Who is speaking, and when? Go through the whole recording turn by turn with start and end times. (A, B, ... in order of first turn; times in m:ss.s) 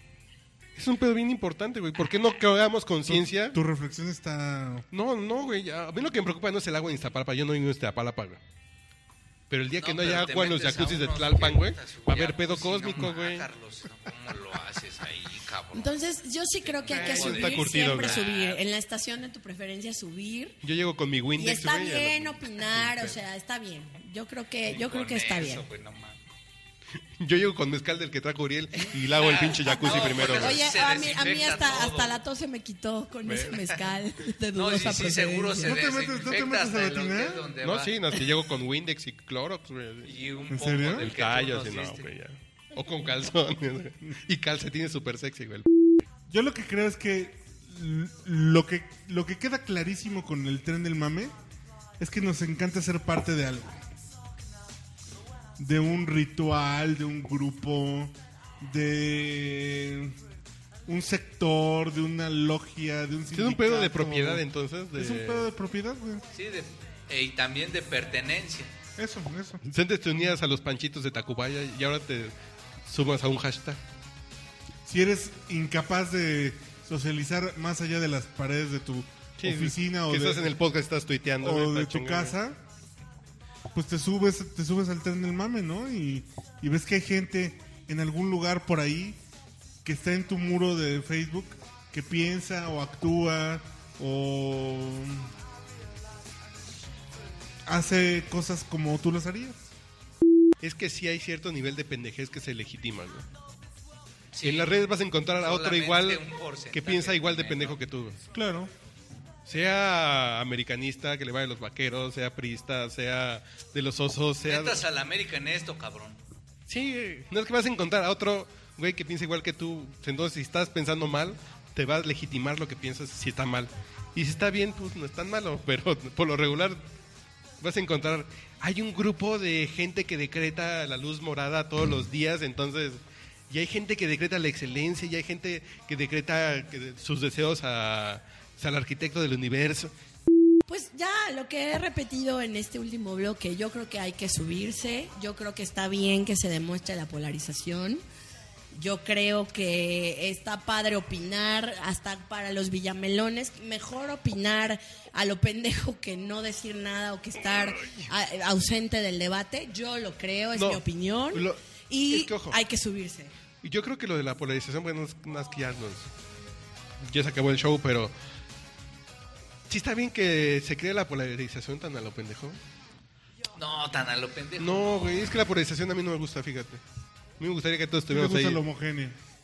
0:00.8-0:03.6 A
0:03.1-0:04.9 B
0:04.9-0:08.4 A
0:09.5-0:13.4 A
0:09.8-0:16.0 C
0:15.7-0:20.6 D
0:16.6-0:18.6 C
0:16.9-0:18.2 A
0:20.6-0:23.2 A
0:21.4-0:25.7 D
0:24.7-0:26.2 C
0:27.2-0:30.6 A
0:29.2-0:32.2 C
0:29.6-0:35.8 D
0:33.2-0:33.6 A
0:34.6-0:38.0 C
0:35.6-0:37.5 B
0:37.6-0:40.1 A
0:40.0-0:42.1 C
0:40.5-0:41.1 B
0:41.0-0:45.7 A
0:46.3-0:51.4 B
0:52.0-0:53.8 B
0:55.6-1:00.2 B
1:00.9-1:04.4 B
1:03.3-1:05.5 A
1:05.0-1:06.2 B
1:06.3-1:08.7 C
1:09.0-1:09.6 B
1:09.6-1:12.3 A
1:12.8-1:13.8 A
1:14.8-1:20.6 B
1:19.4-1:22.4 A
1:21.4-1:22.6 B
1:23.7-1:29.2 B
1:29.8-1:35.3 B
1:37.7-1:39.7 B
1:40.6-1:43.3 A
1:44.3-1:44.8 C
1:44.4-1:46.2 A
1:45.4-1:47.8 C
1:46.7-1:48.2 A
1:48.3-1:48.7 B
1:49.5-1:54.8 A
1:54.4-1:56.2 C
1:56.7-2:06.8 A
2:07.6-2:19.9 A
2:20.7-2:28.0 D
2:28.7-2:43.3 D
2:37.8-2:38.1 A
2:40.6-2:42.6 A
2:43.6-2:46.1 A
2:47.0-2:48.1 A
2:49.7-2:52.6 A
2:53.6-2:55.3 C
2:54.6-2:56.8 A
2:57.4-2:58.6 A
2:58.1-2:59.2 B